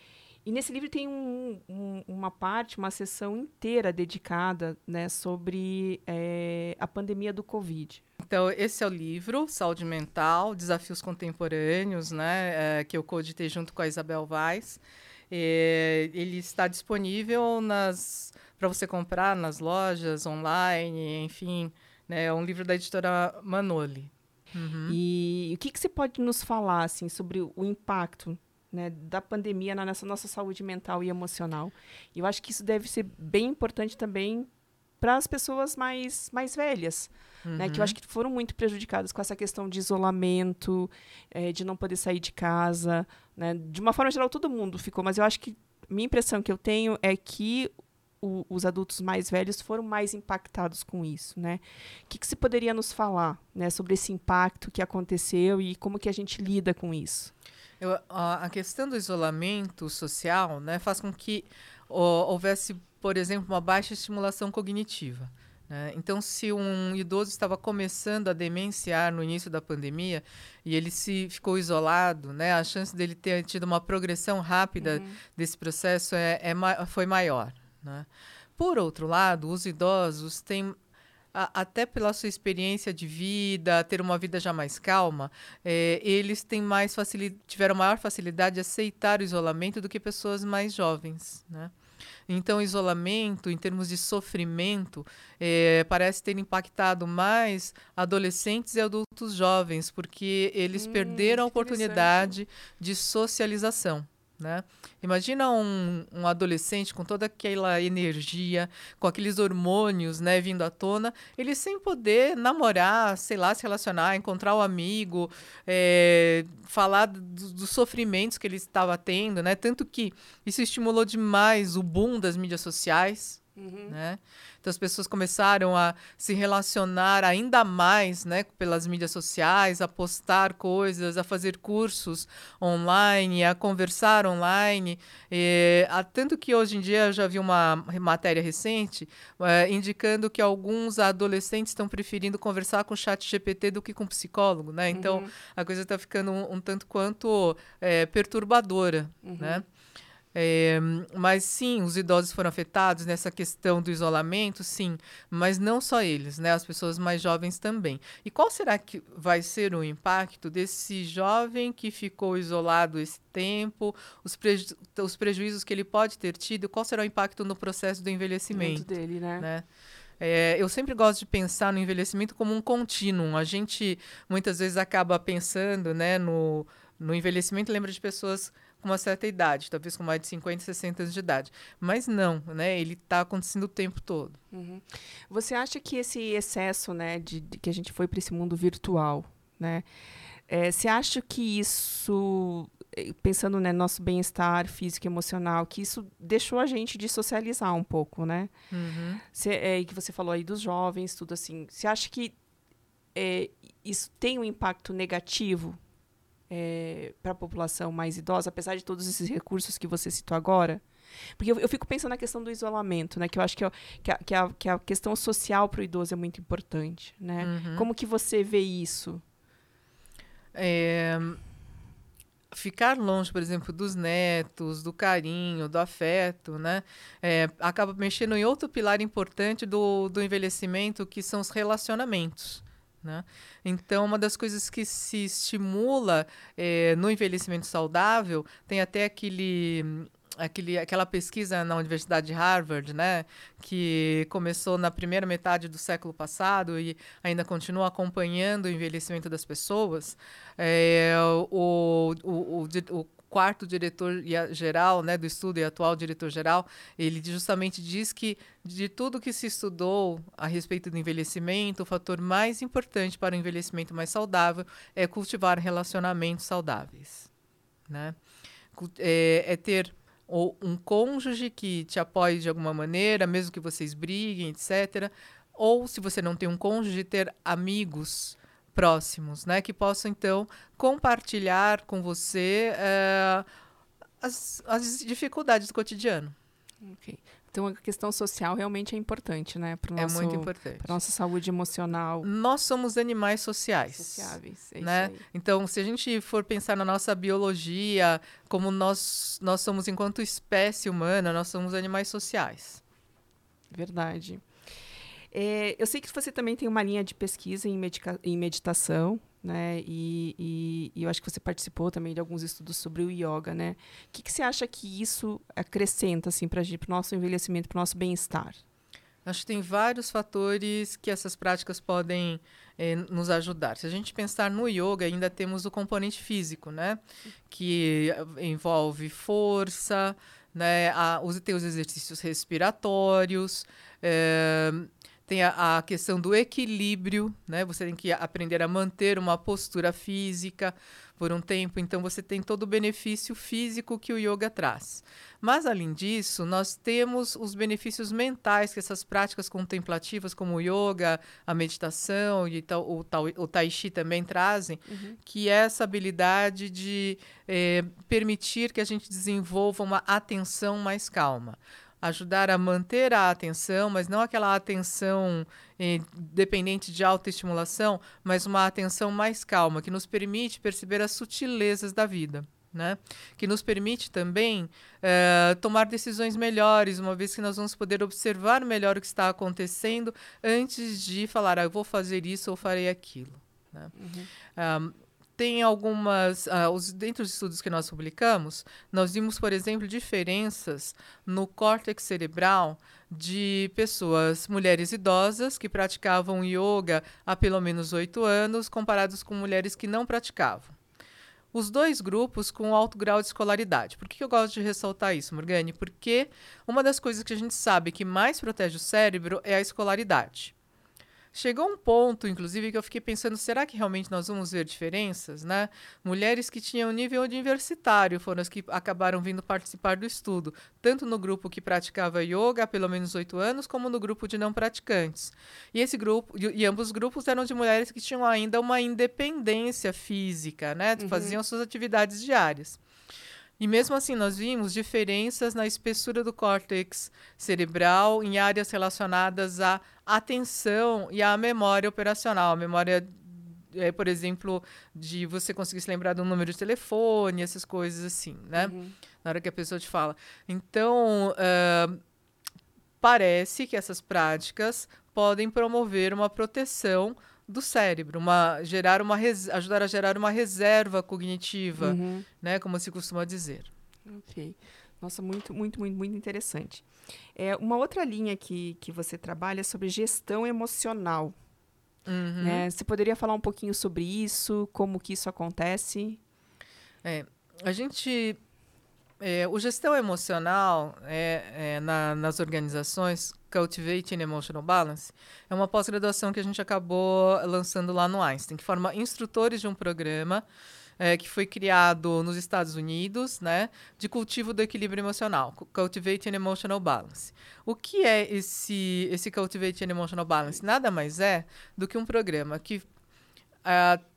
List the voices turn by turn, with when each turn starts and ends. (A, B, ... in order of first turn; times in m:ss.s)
0:00.4-0:08.0 A
0:08.2-0:25.0 B
0:24.9-0:34.5 A
0:35.0-0:57.3 A
0:37.4-0:38.0 B
0:57.8-1:20.8 B
1:14.8-1:15.2 A
1:21.3-1:31.7 B
1:32.3-2:29.6 B
1:40.7-1:42.3 A
2:03.6-2:04.0 A
2:24.9-2:25.3 A
2:29.2-2:29.6 A
2:30.3-2:48.9 B
2:48.5-2:49.5 A
2:49.4-2:49.6 B
2:50.2-3:04.4 B
3:04.5-3:09.8 A
3:10.5-3:18.5 A
3:18.7-3:19.2 B
3:19.2-3:22.4 A
3:23.1-3:25.8 A
3:26.5-3:30.8 A
3:31.4-3:39.2 A
3:37.4-3:37.9 B
3:40.5-3:41.4 B
3:42.5-4:27.3 B
4:27.9-4:28.2 B
4:28.7-4:43.4 B
4:44.2-4:46.3 B
4:46.8-4:52.3 A
4:50.0-4:50.9 B
4:52.2-5:02.8 B
4:54.0-4:55.2 A
5:03.7-5:04.4 A
5:05.3-5:18.6 A
5:19.2-6:23.9 B
5:54.9-5:55.2 A
6:23.9-6:24.3 A
6:24.6-6:40.8 B
6:41.5-6:50.5 B
6:51.3-7:12.8 B
7:11.0-7:11.4 A
7:13.6-7:32.0 B
7:28.6-7:28.9 A
7:33.0-7:43.7 B
7:41.8-7:42.2 A
7:44.1-7:46.8 A
7:47.4-7:51.3 A
7:52.0-7:52.6 B
7:52.4-7:56.2 A
7:57.0-7:58.4 B
7:59.2-8:10.4 B
8:11.0-8:22.9 B
8:23.6-8:24.0 B